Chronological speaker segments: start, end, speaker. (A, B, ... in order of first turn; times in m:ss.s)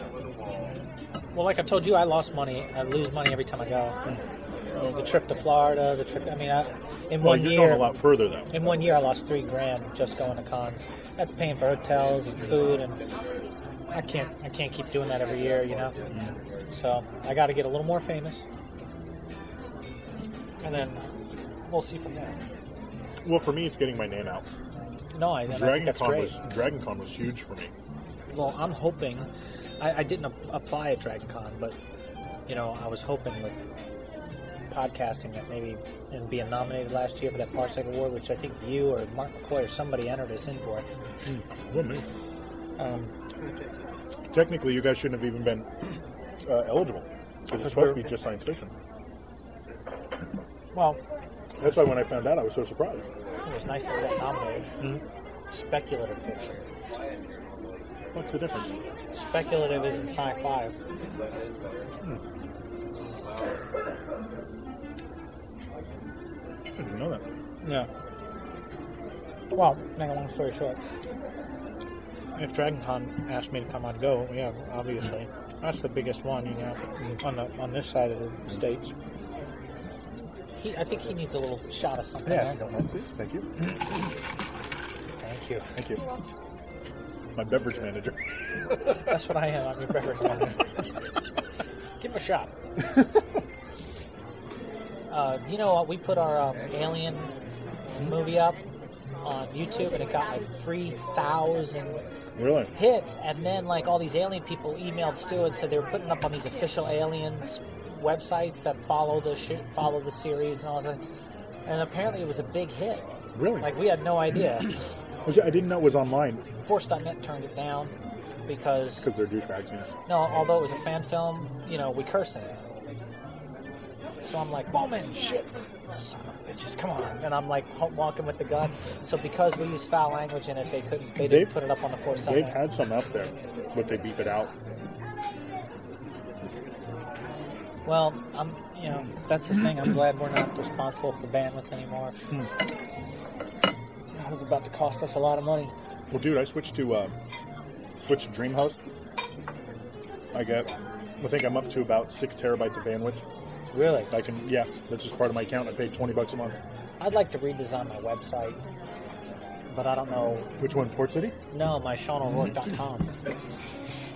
0:01.3-0:04.0 A
0:04.9-0:13.0 A
0:07.2-0:08.7 B
0:13.9-0:15.9 A
0:16.7-0:18.4 A
0:20.6-0:21.0 A
0:21.7-0:22.4 A
0:23.2-0:24.4 B
0:25.1-0:26.4 A
0:25.5-0:27.7 B
0:28.3-0:29.3 A
0:29.8-0:31.7 A
0:32.5-0:33.6 A
0:34.7-0:40.9 A
0:41.2-0:42.0 B
0:42.8-0:43.1 A
0:44.3-0:45.7 B
0:46.4-0:48.7 B
0:47.5-0:48.1 A
0:50.7-0:51.0 A
0:51.6-0:53.0 B
0:53.4-0:54.7 A
0:55.5-0:56.6 A
0:58.1-0:58.7 B
0:59.1-1:00.7 A
1:06.8-1:07.2 B
1:07.6-1:07.9 A
1:09.5-1:10.8 A
1:12.3-1:18.9 A
1:20.6-1:22.6 A
1:22.2-1:23.5 B
1:25.2-1:25.6 A
1:25.8-1:26.0 B
1:27.3-1:28.1 B
1:29.1-1:30.6 A
1:32.0-1:32.5 A
1:35.1-1:37.3 A
1:38.0-1:38.6 A
1:39.2-1:42.0 A
1:42.4-1:42.7 B
1:42.7-1:51.0 A
1:51.6-1:53.0 A
1:53.3-1:53.8 B
1:53.6-1:54.7 A
1:55.2-1:56.4 B
1:56.6-1:57.9 A
1:58.5-1:59.1 A
1:59.0-1:59.9 B
2:00.1-2:02.5 A
2:04.2-2:12.6 A
2:11.2-2:11.5 B
2:12.2-2:14.5 B
2:17.8-2:22.2 A
2:24.1-2:25.7 A
2:26.1-2:27.1 B
2:28.0-2:28.8 B
2:30.3-2:33.2 B
2:33.7-2:34.1 A
2:34.1-2:36.6 B
2:37.0-2:38.6 A
2:39.7-2:40.5 A
2:40.6-2:41.3 B
2:41.5-2:43.1 A